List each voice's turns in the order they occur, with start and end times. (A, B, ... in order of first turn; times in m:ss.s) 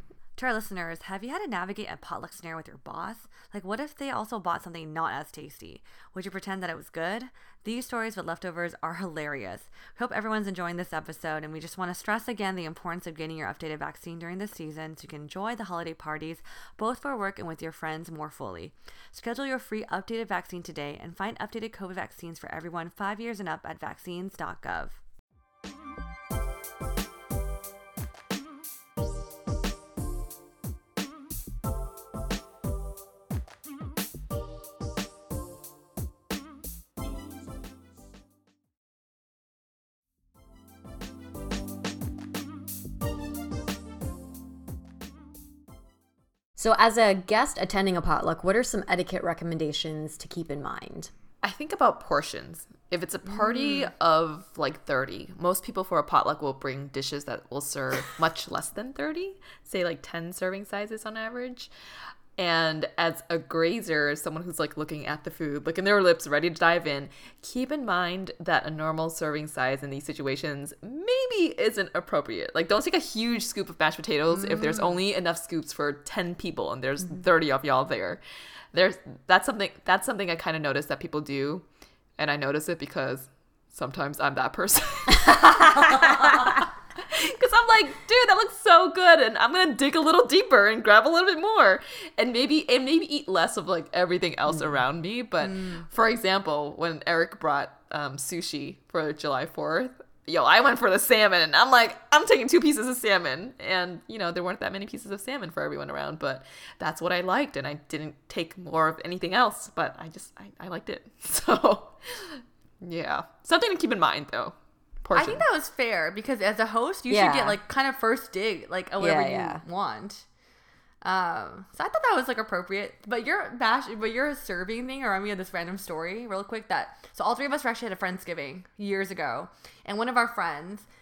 0:00.4-0:25.0 A
0:46.6-0:51.1 B
0:51.4-1:01.7 C
1:02.4-1:18.2 C
1:14.3-1:14.9 A
1:18.7-1:21.6 C
1:22.2-1:55.4 C
1:35.4-1:35.9 A
1:55.2-2:00.2 A
1:57.1-1:57.6 B
1:59.0-1:59.6 B
2:01.0-2:10.9 A